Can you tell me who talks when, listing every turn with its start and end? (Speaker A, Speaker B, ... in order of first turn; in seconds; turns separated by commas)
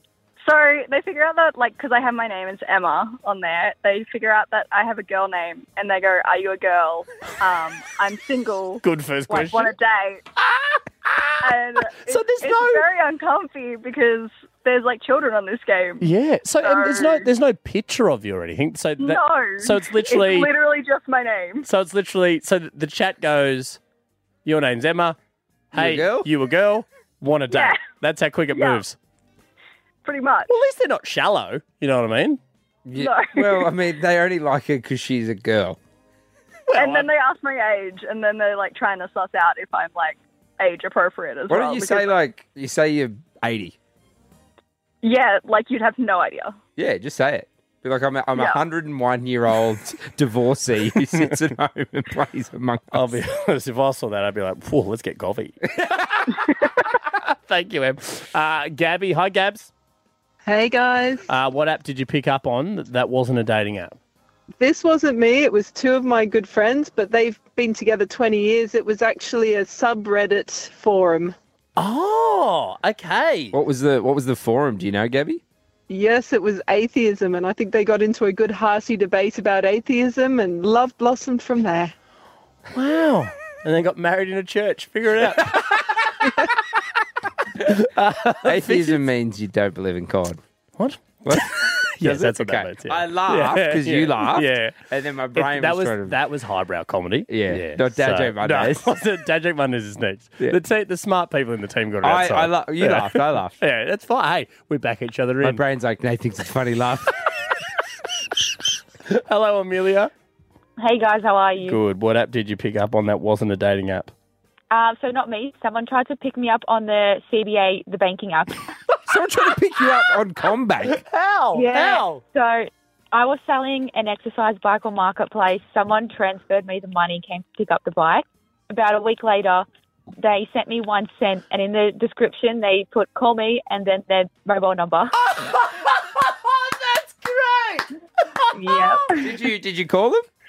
Speaker A: 0.4-10.2, Speaker B: 8.8-9.7, Speaker B: 11.0-12.9, Speaker A: 11.4-16.0, Speaker B: 16.0-20.5, Speaker A: 16.6-17.3, Speaker A: 19.0-21.7, Speaker B: 21.6-23.8, Speaker B: 24.4-25.1, Speaker B: 25.7-28.9, Speaker C: 25.7-26.3, Speaker A: 27.5-27.8, Speaker A: 28.5-28.8, Speaker A: 30.0-30.5, Speaker B: 30.5-32.4, Speaker C: 32.9-35.8, Speaker A: 32.9-33.7, Speaker B: 36.7-37.1, Speaker A: 36.7-42.1, Speaker C: 41.5-43.7, Speaker A: 45.0-46.5, Speaker C: 46.8-53.2, Speaker A: 48.3-48.6, Speaker B: 52.9-55.6, Speaker B: 57.1-59.7, Speaker D: 60.4-61.2, Speaker B: 61.3-64.0, Speaker D: 64.6-71.3, Speaker B: 71.8-73.5, Speaker C: 73.5-75.4, Speaker D: 75.9-81.9, Speaker B: 82.7-85.9, Speaker B: 87.6-89.0, Speaker C: 88.4-90.4, Speaker B: 90.8-94.8, Speaker C: 91.2-96.2, Speaker B: 95.3-105.6, Speaker C: 97.3-98.9, Speaker C: 102.0-103.5, Speaker C: 105.4-107.1, Speaker B: 109.1-110.1, Speaker E: 110.8-111.8, Speaker B: 111.6-114.1, Speaker E: 114.7-118.6, Speaker C: 119.1-120.9, Speaker B: 121.0-122.2, Speaker E: 121.5-129.7, Speaker E: 130.2-135.2, Speaker B: 135.4-137.8, Speaker A: 138.6-139.2, Speaker C: 139.2-140.2